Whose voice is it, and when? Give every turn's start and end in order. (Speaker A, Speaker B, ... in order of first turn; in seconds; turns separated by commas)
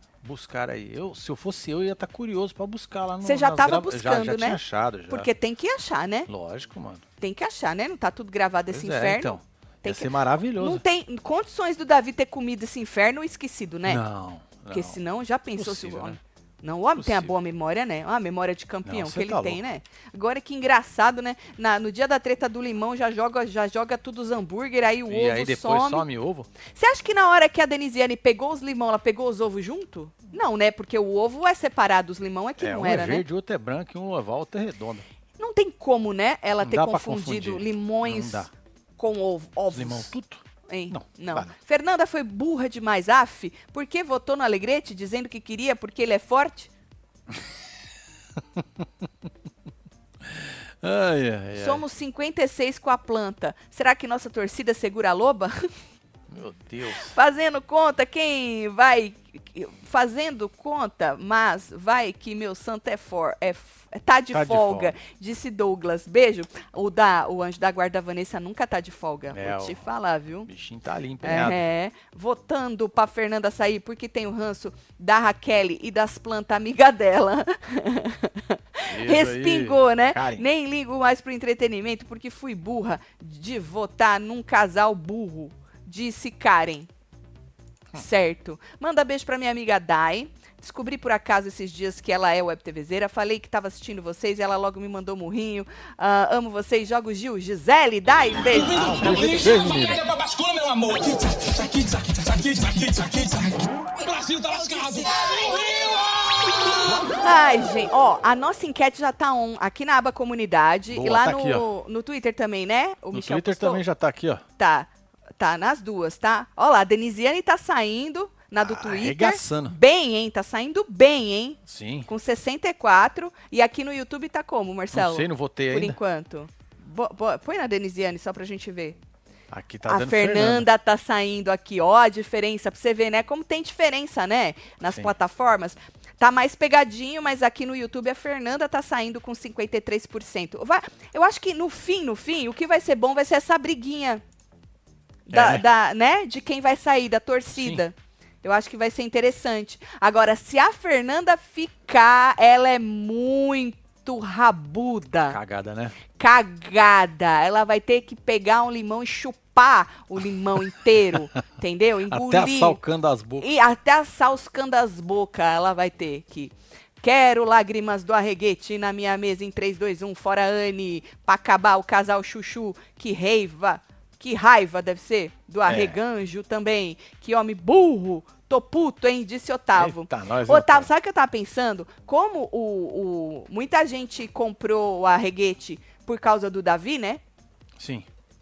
Speaker A: 0.2-5.3, Speaker B: 3.2-4.6, Speaker B: 5.1-6.3, Speaker A: 6.3-7.0, Speaker B: 7.2-14.0, Speaker A: 8.7-10.8, Speaker A: 13.9-15.0, Speaker B: 14.7-26.1, Speaker A: 15.6-16.2, Speaker A: 16.9-17.3, Speaker A: 18.9-19.6, Speaker A: 25.1-26.5, Speaker B: 26.8-33.2, Speaker A: 32.6-35.0, Speaker B: 35.4-38.5, Speaker A: 36.6-38.5, Speaker B: 39.0-40.1, Speaker A: 39.7-41.5, Speaker B: 40.7-46.7, Speaker A: 48.4-48.8, Speaker A: 50.2-51.8, Speaker B: 51.6-55.7, Speaker A: 56.3-57.2, Speaker B: 56.9-70.5, Speaker A: 64.3-65.0, Speaker A: 69.3-69.8, Speaker A: 70.5-71.6, Speaker B: 71.2-86.9, Speaker A: 78.9-80.5, Speaker B: 87.9-99.3, Speaker C: 98.5-107.1, Speaker A: 98.8-100.0, Speaker B: 106.9-113.8, Speaker A: 110.9-111.7, Speaker A: 113.1-114.4, Speaker B: 114.6-129.0, Speaker A: 118.6-119.8, Speaker A: 121.7-122.1, Speaker A: 124.9-126.0, Speaker A: 129.5-130.7, Speaker B: 129.9-144.2, Speaker B: 145.3-155.4, Speaker A: 145.3-145.6, Speaker A: 147.6-147.8, Speaker A: 155.3-155.9, Speaker B: 156.2-162.8, Speaker A: 162.1-163.5, Speaker B: 163.4-187.2, Speaker A: 175.7-176.0, Speaker A: 179.8-180.9, Speaker A: 187.8-188.1